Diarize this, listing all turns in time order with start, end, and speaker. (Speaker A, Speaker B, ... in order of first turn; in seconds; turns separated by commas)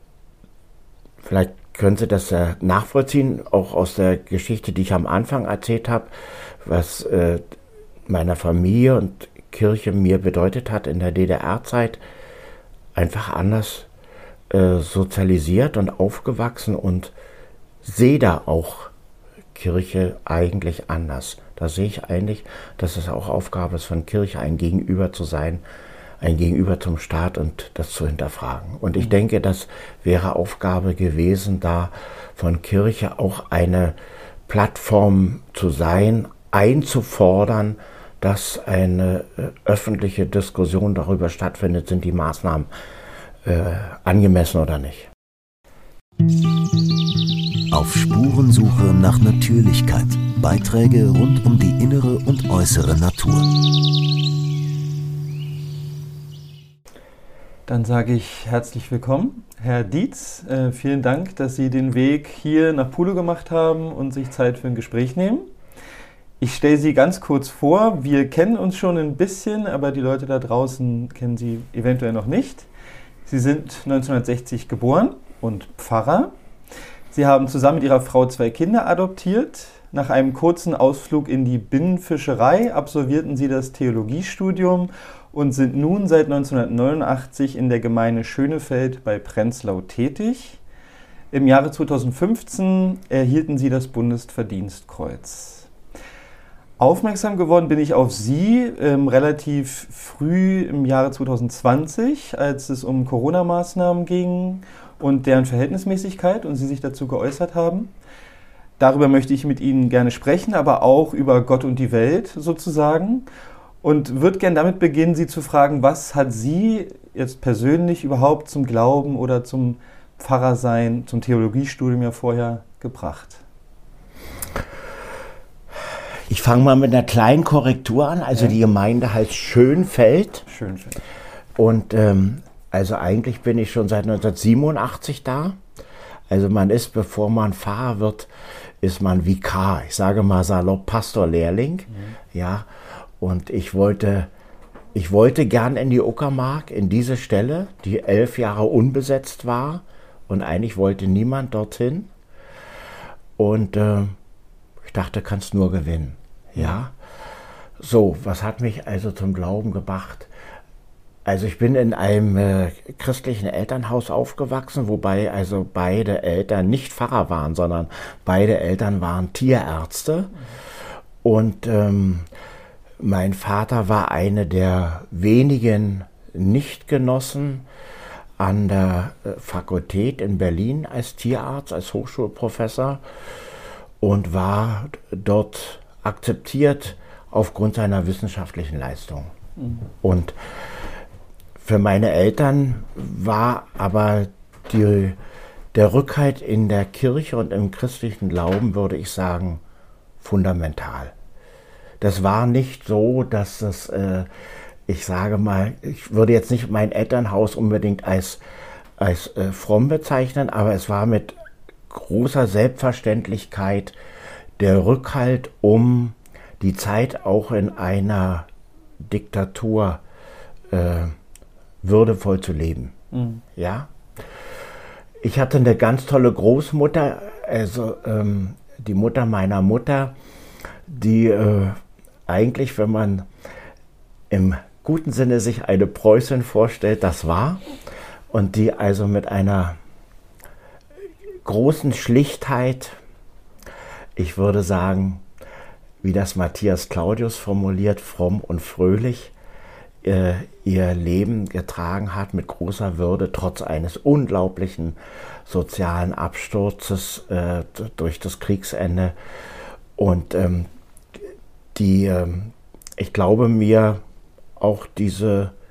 Speaker A: 1.2-6.1, Speaker A: 6.7-7.4, Speaker A: 8.1-12.0, Speaker A: 12.9-13.9, Speaker A: 14.5-17.1, Speaker A: 17.8-18.9, Speaker A: 19.5-25.6, Speaker A: 26.2-34.0, Speaker A: 34.5-42.7, Speaker A: 43.5-45.1, Speaker B: 47.7-53.5, Speaker C: 57.7-65.5, Speaker C: 66.4-72.7, Speaker C: 73.3-76.3, Speaker C: 77.1-90.6, Speaker C: 91.3-95.7, Speaker C: 96.8-107.9, Speaker C: 108.8-113.3, Speaker C: 113.8-123.4, Speaker A: 126.3-130.5, Speaker C: 130.5-131.0, Speaker A: 131.6-135.6, Speaker A: 136.3-138.3, Speaker A: 138.8-142.7, Speaker A: 143.2-144.3, Speaker A: 144.9-152.1, Speaker A: 153.4-154.2, Speaker A: 154.8-156.9, Speaker A: 157.8-160.3, Speaker A: 161.2-170.3, Speaker A: 171.2-172.3, Speaker A: 173.0-177.7, Speaker A: 178.4-183.0, Speaker A: 184.0-189.3, Speaker C: 189.6-189.8, Speaker A: 190.0-190.4, Speaker A: 191.6-195.2, Speaker A: 195.7-199.6, Speaker A: 200.2-201.1, Speaker A: 202.0-204.3, Speaker A: 204.9-208.4, Speaker A: 209.0-211.3, Speaker A: 211.9-214.0, Speaker A: 214.6-218.5, Speaker A: 219.0-220.0, Speaker A: 220.7-221.2, Speaker A: 221.8-222.9, Speaker C: 223.1-223.4, Speaker A: 223.6-223.9, Speaker A: 225.2-230.2, Speaker A: 230.9-233.3, Speaker A: 234.3-237.6, Speaker A: 238.3-239.8, Speaker A: 241.4-243.0, Speaker A: 244.2-245.2, Speaker A: 246.0-249.3, Speaker A: 250.0-259.1, Speaker A: 260.0-260.7, Speaker A: 261.8-264.0, Speaker A: 264.6-265.5